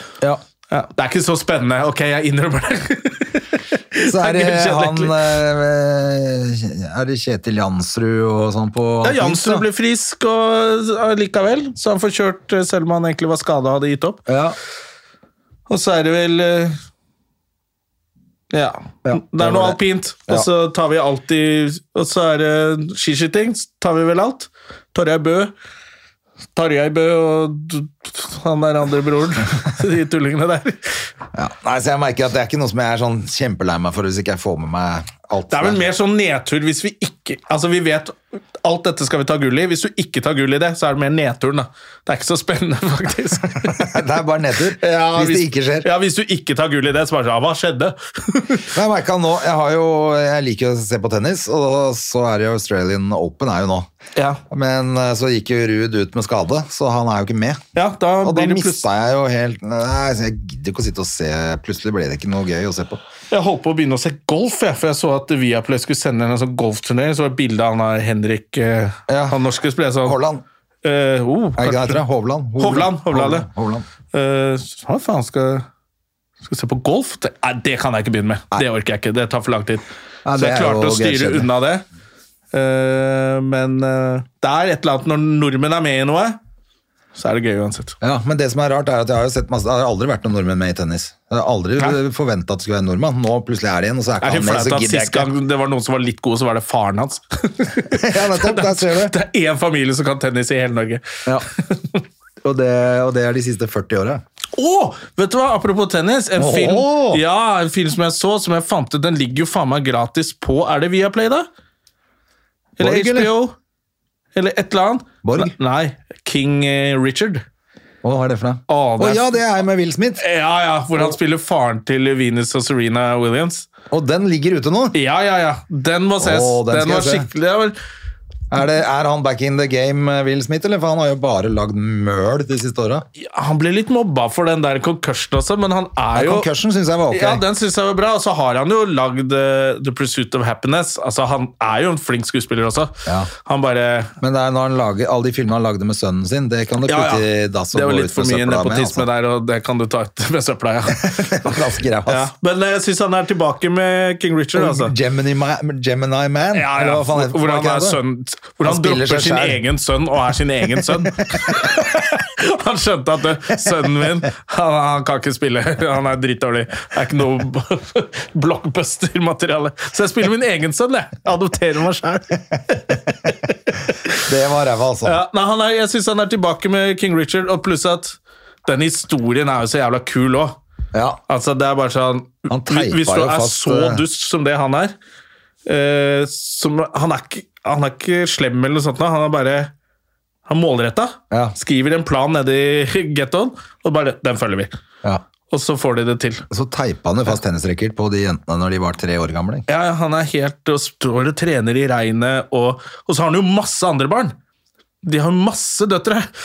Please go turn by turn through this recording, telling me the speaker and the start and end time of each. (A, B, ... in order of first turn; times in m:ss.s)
0:00.7-0:05.2 A
0:04.0-0:09.7 B
0:09.0-0:14.2 A
0:14.3-0:14.6 B
0:15.7-0:16.8 A
0:18.5-0:25.5 A
0:19.0-0:20.5 B
0:26.6-0:31.1 A
0:31.3-0:35.8 B
0:35.5-0:43.9 A
0:43.6-0:45.9 B
0:44.8-0:48.7 A
0:48.7-0:53.9 B
0:54.2-0:54.4 A
0:54.5-0:57.6 B
0:57.8-0:58.8 A
0:58.2-1:03.0 B
1:03.3-1:10.2 A
1:09.1-1:09.4 B
1:10.0-1:10.4 B
1:10.8-1:12.0 A
1:11.6-1:13.9 B
1:12.6-1:13.5 A
1:14.1-1:15.7 A
1:16.4-1:21.8 A
1:20.2-1:21.5 B
1:22.5-1:26.4 A
1:27.2-1:28.0 A
1:28.0-1:35.3 B
1:34.2-1:42.0 A
1:37.9-1:39.2 B
1:42.4-1:44.2 B
1:44.6-1:51.5 A
1:46.4-1:47.2 B
1:52.8-1:53.6 A
1:52.8-1:53.3 B
1:54.4-1:57.4 A
1:55.2-1:55.5 B
1:58.0-2:00.2 B
1:58.7-1:59.4 A
2:00.2-2:03.7 A
2:03.9-2:05.0 B
2:05.0-2:07.8 A
2:06.2-2:07.3 B
2:08.5-2:13.0 B
2:13.2-2:16.5 A
2:16.2-2:17.4 B
2:17.1-2:24.1 A
2:23.1-2:23.3 B
2:24.2-2:29.1 B
2:26.9-2:34.9 A
2:31.0-2:32.3 B
2:34.5-2:38.0 B
2:36.5-2:53.5 A
2:38.6-2:39.6 B
2:40.7-2:41.7 B
2:54.2-2:55.2 B
2:55.0-3:00.6 A
3:00.9-3:01.2 B
3:01.3-3:04.9 A
3:02.5-3:04.0 B
3:05.7-3:09.7 A
3:10.5-3:14.7 A
3:11.3-3:11.6 B
3:15.5-3:16.5 A
3:16.5-3:19.6 B
3:19.7-3:24.4 A
3:25.0-3:26.3 A